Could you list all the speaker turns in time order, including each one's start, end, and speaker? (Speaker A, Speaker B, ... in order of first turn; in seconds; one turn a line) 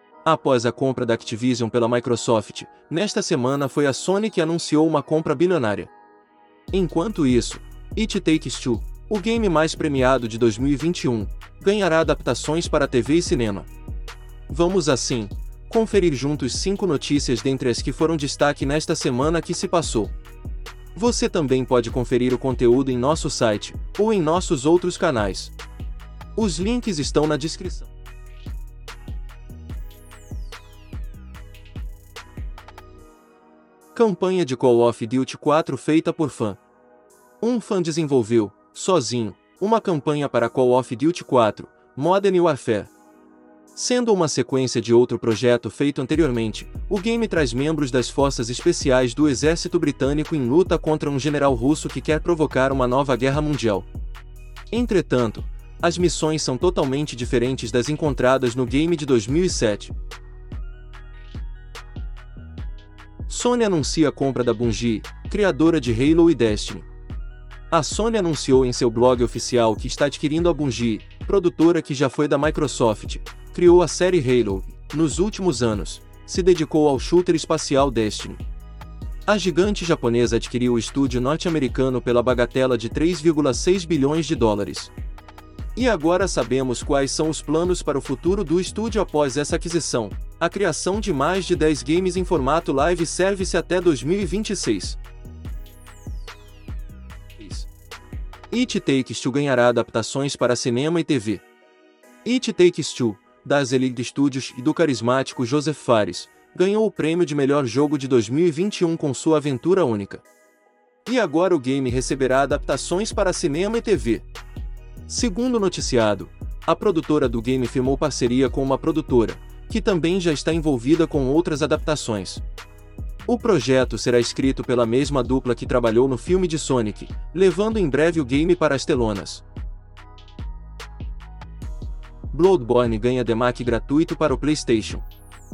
Speaker A: 0.2-5.9
Speaker A: 6.7-13.7
Speaker A: 14.5-20.1
Speaker A: 20.9-25.5
Speaker A: 26.4-27.9
Speaker A: 33.9-36.6
Speaker A: 37.4-42.9
Speaker A: 43.7-53.9
Speaker A: 54.7-59.9
Speaker A: 63.3-66.9
Speaker A: 67.7-78.4
Speaker A: 79.3-84.9
Speaker A: 85.8-95.0
Speaker A: 97.4-97.7
Speaker A: 98.5-101.4
Speaker A: 102.2-110.2
Speaker A: 111.0-114.2
Speaker A: 115.1-122.4
Speaker A: 123.3-129.4
Speaker A: 132.3-135.0